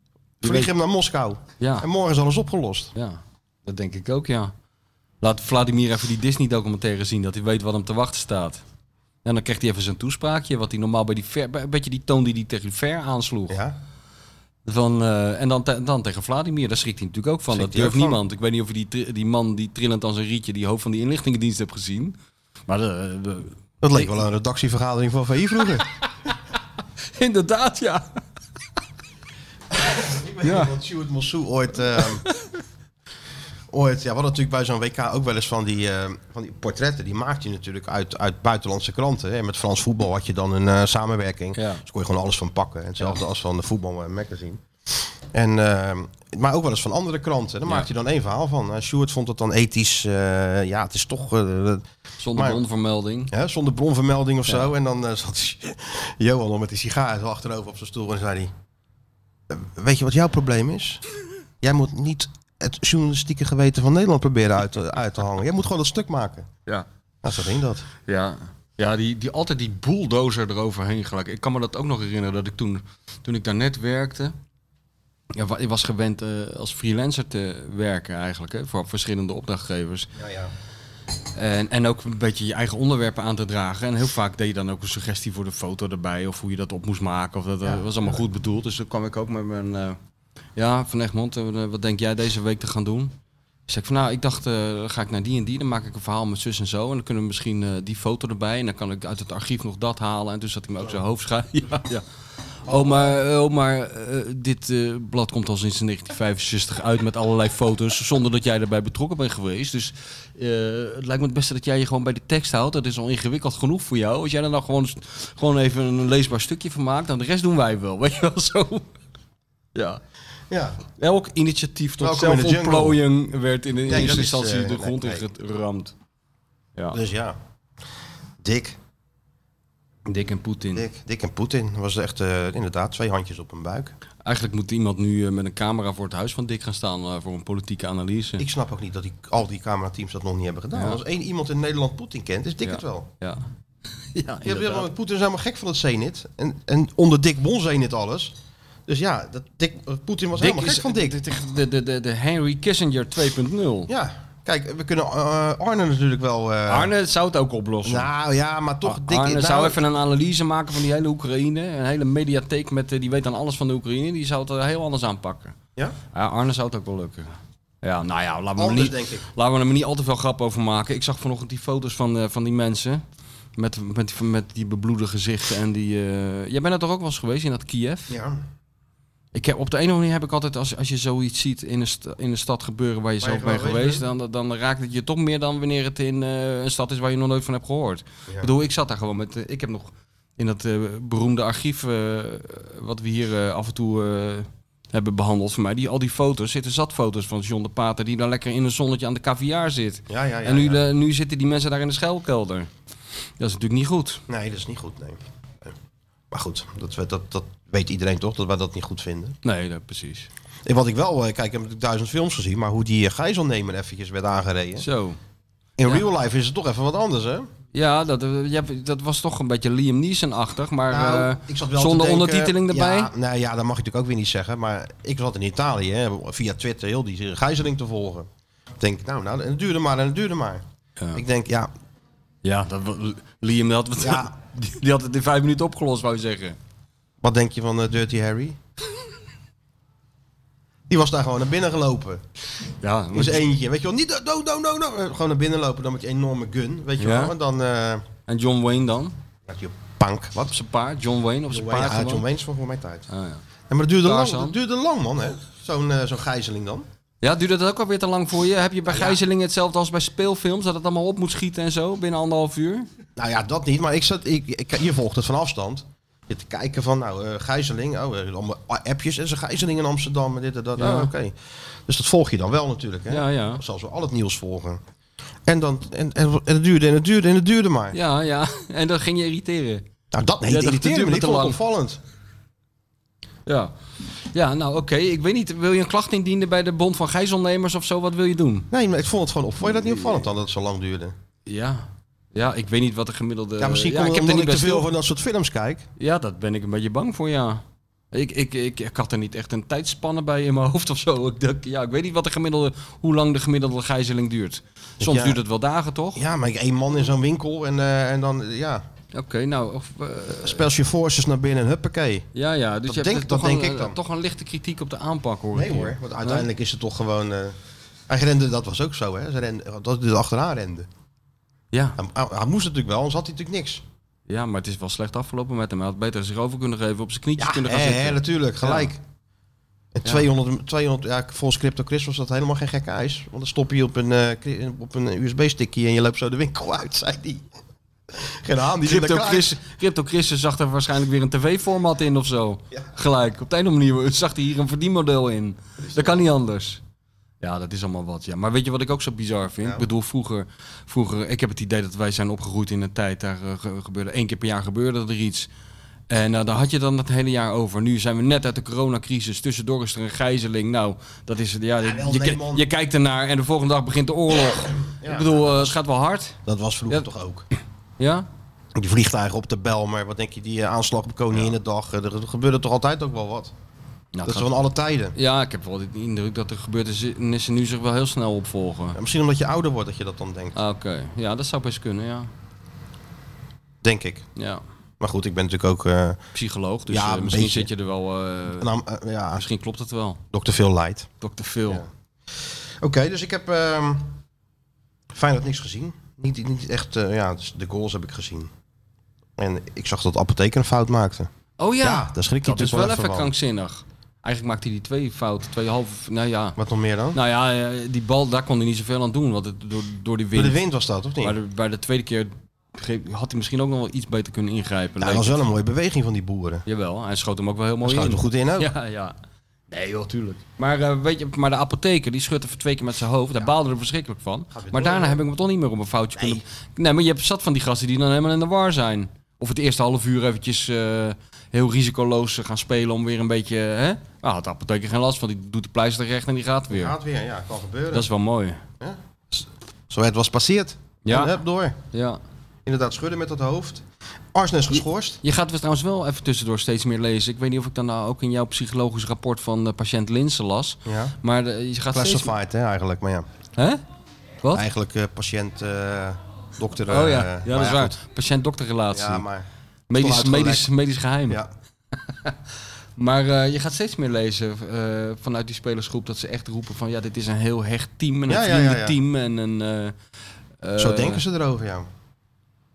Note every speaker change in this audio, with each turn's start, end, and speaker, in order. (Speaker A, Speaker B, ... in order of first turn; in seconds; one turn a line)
Speaker A: 0.4-0.7
Speaker B: 0.4-2.9
Speaker A: 1.6-1.9
Speaker A: 3.0-4.5
Speaker A: 5.2-8.6
Speaker A: 9.2-13.6
Speaker B: 13.5-13.8
Speaker A: 14.7-22.2
Speaker B: 17.5-18.2
Speaker A: 22.7-24.1
Speaker B: 23.8-25.9
Speaker A: 27.1-28.1
Speaker B: 29.8-32.3
Speaker A: 30.4-30.7
Speaker B: 33.7-52.6
Speaker A: 41.5-41.8
Speaker A: 52.2-53.3
Speaker B: 53.3-58.5
Speaker B: 59.5-61.0
Speaker B: 61.6-66.5
Speaker B: 67.2-67.9
Speaker A: 68.1-74.3
Speaker A: 75.3-80.1
Speaker B: 80.2-80.5
Speaker A: 81.4-90.0
Speaker A: 90.6-93.1
Speaker A: 93.7-102.0
Speaker A: 102.7-118.9
Speaker B: 102.7-103.2
Speaker A: 119.8-120.0
Speaker B: 120.5-120.8
Speaker A: 121.0-125.9
Speaker B: 122.0-123.0
Speaker B: 123.9-125.3
Speaker B: 126.9-127.4
Speaker B: 128.4-128.8
Speaker A: 130.1-130.9
Speaker B: 130.7-133.9
Speaker A: 134.2-138.4
Speaker B: 138.4-143.1
Speaker A: 140.7-141.0
Speaker A: 142.6-143.4
Speaker A: 144.1-144.9
Speaker B: 144.4-148.4
Speaker B: 148.9-151.2
Speaker A: 150.4-153.9
Speaker B: 153.9-156.9
Speaker A: 156.7-158.1
Speaker B: 157.8-159.8
Speaker A: 158.8-165.6
Speaker A: 166.1-173.0
Speaker B: 168.6-169.3
Speaker A: 173.6-178.2
Speaker B: 178.1-178.4
Speaker A: 179.3-202.7
Speaker B: 183.2-184.1
Speaker B: 200.1-200.8
Speaker A: 203.4-204.2
Speaker B: 204.3-205.7
Speaker B: 206.3-209.4
Speaker A: 209.4-210.3
Speaker B: 210.7-214.9
Speaker A: 214.8-215.2
Speaker B: 215.8-217.5
Speaker A: 217.7-223.1
Speaker B: 220.9-228.3
Speaker B: 228.8-231.7
Speaker A: 232.4-236.6
Speaker B: 234.0-234.3
Speaker B: 237.2-238.6
Speaker B: 240.9-242.2
Speaker A: 242.8-243.5
Speaker B: 243.1-248.1
Speaker A: 247.0-247.3
Speaker A: 248.3-249.1
Speaker B: 249.5-250.6
Speaker A: 250.5-252.2
Speaker B: 251.5-253.1
Speaker A: 253.1-253.4
Speaker B: 253.7-256.9
Speaker A: 254.0-254.6
Speaker A: 257.2-262.9
Speaker B: 258.9-259.2
Speaker B: 263.2-274.8
Speaker A: 270.8-271.1
Speaker A: 273.1-273.6
Speaker B: 275.5-278.0
Speaker A: 277.9-279.8
Speaker B: 280.1-282.0
Speaker A: 280.5-281.6
Speaker A: 283.5-283.7
Speaker A: 284.3-288.7
Speaker B: 288.7-291.1
Speaker A: 291.5-294.9
Speaker B: 293.6-295.9
Speaker A: 296.0-306.2
Speaker B: 305.0-305.4
Speaker B: 306.1-308.8
Speaker A: 309.1-310.6
Speaker B: 310.4-312.3
Speaker A: 312.4-316.5
Speaker B: 312.9-314.0
Speaker B: 315.5-317.6
Speaker B: 318.1-320.9
Speaker A: 321.7-322.0
Speaker B: 322.0-323.8
Speaker A: 324.3-328.9
Speaker B: 327.4-329.0
Speaker B: 329.9-337.4
Speaker B: 338.1-339.6
Speaker A: 338.8-346.8
Speaker A: 347.4-355.5
Speaker A: 356.1-366.4
Speaker B: 361.8-362.7
Speaker B: 364.8-365.8
Speaker B: 366.5-367.5
Speaker A: 368.0-368.3
Speaker B: 368.8-373.5
Speaker A: 374.1-374.5
Speaker B: 374.3-375.1
Speaker A: 375.1-379.0
Speaker B: 378.9-380.6
Speaker A: 380.6-382.3
Speaker B: 383.8-384.3
Speaker A: 384.4-384.6
Speaker B: 385.0-386.2
Speaker A: 386.3-388.7
Speaker B: 386.9-387.7
Speaker B: 388.6-389.4
Speaker A: 389.4-390.2
Speaker B: 390.3-391.1
Speaker A: 391.2-391.9
Speaker B: 392.8-394.2
Speaker B: 395.1-398.5
Speaker B: 399.4-401.3
Speaker A: 401.6-406.6
Speaker B: 401.8-403.3
Speaker B: 406.6-407.2
Speaker A: 407.1-410.6
Speaker B: 410.3-411.4
Speaker A: 411.2-415.4
Speaker B: 415.0-416.6
Speaker A: 416.7-419.1
Speaker B: 417.9-418.7
Speaker A: 419.7-437.0
Speaker B: 424.5-425.2
Speaker B: 426.2-426.4
Speaker B: 436.7-438.1
Speaker A: 437.9-438.6
Speaker B: 438.8-441.8
Speaker A: 441.1-441.4
Speaker A: 441.9-442.2
Speaker B: 442.7-445.2
Speaker A: 445.2-452.3
Speaker B: 450.9-451.2
Speaker B: 451.9-453.3
Speaker B: 454.5-458.0
Speaker A: 456.9-459.2
Speaker B: 458.9-460.7
Speaker A: 459.9-461.4
Speaker A: 462.1-462.4
Speaker A: 463.0-469.9
Speaker B: 468.3-469.0
Speaker A: 470.6-471.2
Speaker B: 470.8-471.9